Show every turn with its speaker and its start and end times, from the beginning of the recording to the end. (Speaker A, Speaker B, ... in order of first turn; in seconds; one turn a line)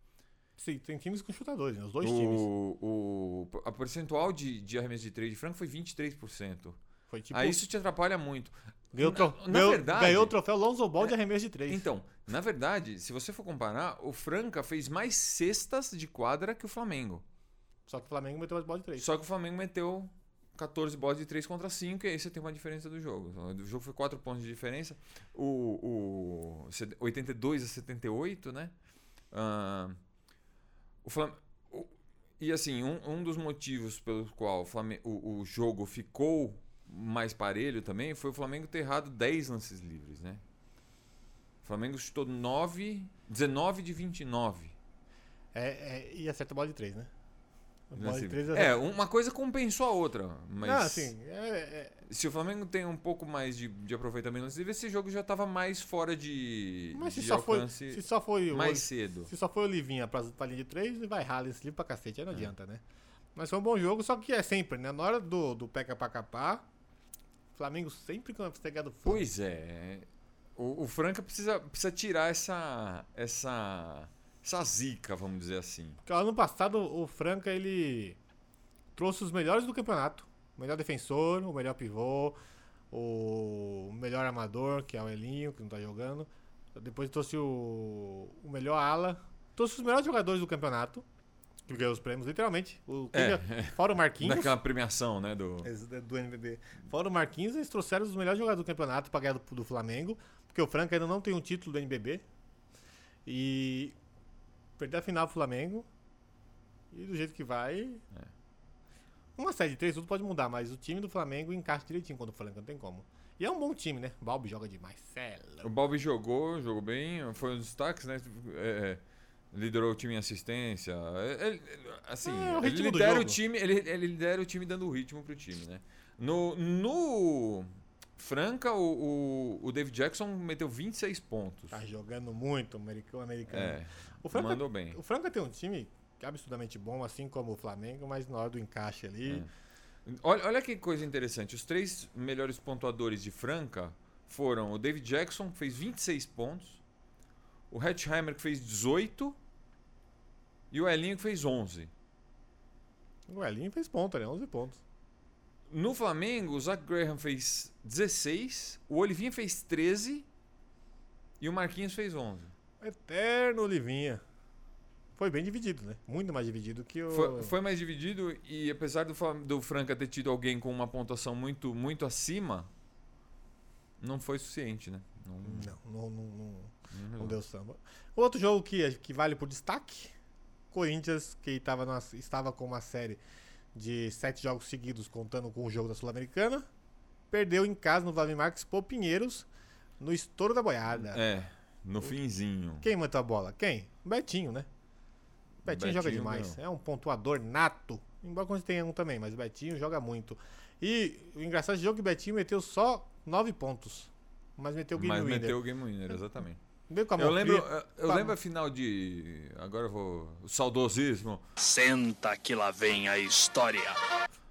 Speaker A: 0.6-2.5
Speaker B: 2.0-6.8
Speaker A: 7.1-7.7
Speaker B: 7.3-10.3
Speaker A: 8.9-11.9
Speaker B: 11.7-17.2
Speaker A: 17.9-19.1
Speaker B: 19.0-28.7
Speaker B: 29.3-30.0
Speaker B: 31.0-40.4
Speaker B: 41.6-44.8
Speaker A: 45.5-47.1
Speaker A: 47.9-48.8
Speaker B: 48.0-51.1
Speaker A: 50.6-52.0
Speaker B: 52.1-59.3
Speaker A: 56.9-62.8
Speaker A: 63.4-66.7
Speaker A: 67.5-69.2
Speaker B: 69.0-76.0
Speaker A: 76.0-78.2
Speaker A: 79.0-82.4
Speaker A: 82.9-91.0
Speaker A: 91.7-94.5
Speaker B: 93.1-95.7
Speaker A: 95.6-102.2
Speaker A: 103.2-104.0
Speaker A: 104.8-105.9
Speaker A: 106.9-108.0
Speaker A: 109.4-115.7
Speaker B: 115.6-131.8
Speaker A: 122.2-123.4
Speaker A: 131.7-139.5
Speaker B: 133.5-135.0
Speaker B: 139.2-139.5
Speaker B: 140.1-146.8
Speaker B: 147.7-149.4
Speaker B: 150.7-151.9
Speaker A: 153.3-154.8
Speaker B: 155.7-160.3
Speaker B: 161.4-162.5
Speaker A: 162.8-164.2
Speaker A: 165.2-167.6
Speaker B: 167.1-172.7
Speaker B: 174.0-175.8
Speaker A: 175.4-180.1
Speaker B: 176.9-177.4
Speaker A: 180.7-183.2
Speaker A: 183.7-186.7
Speaker A: 187.3-189.5
Speaker A: 190.0-191.2
Speaker B: 190.9-192.9
Speaker A: 192.8-194.7
Speaker B: 195.6-196.6
Speaker A: 195.7-205.6
Speaker B: 205.0-206.6
Speaker A: 206.9-208.3
Speaker B: 207.2-211.4
Speaker C: 211.6-214.0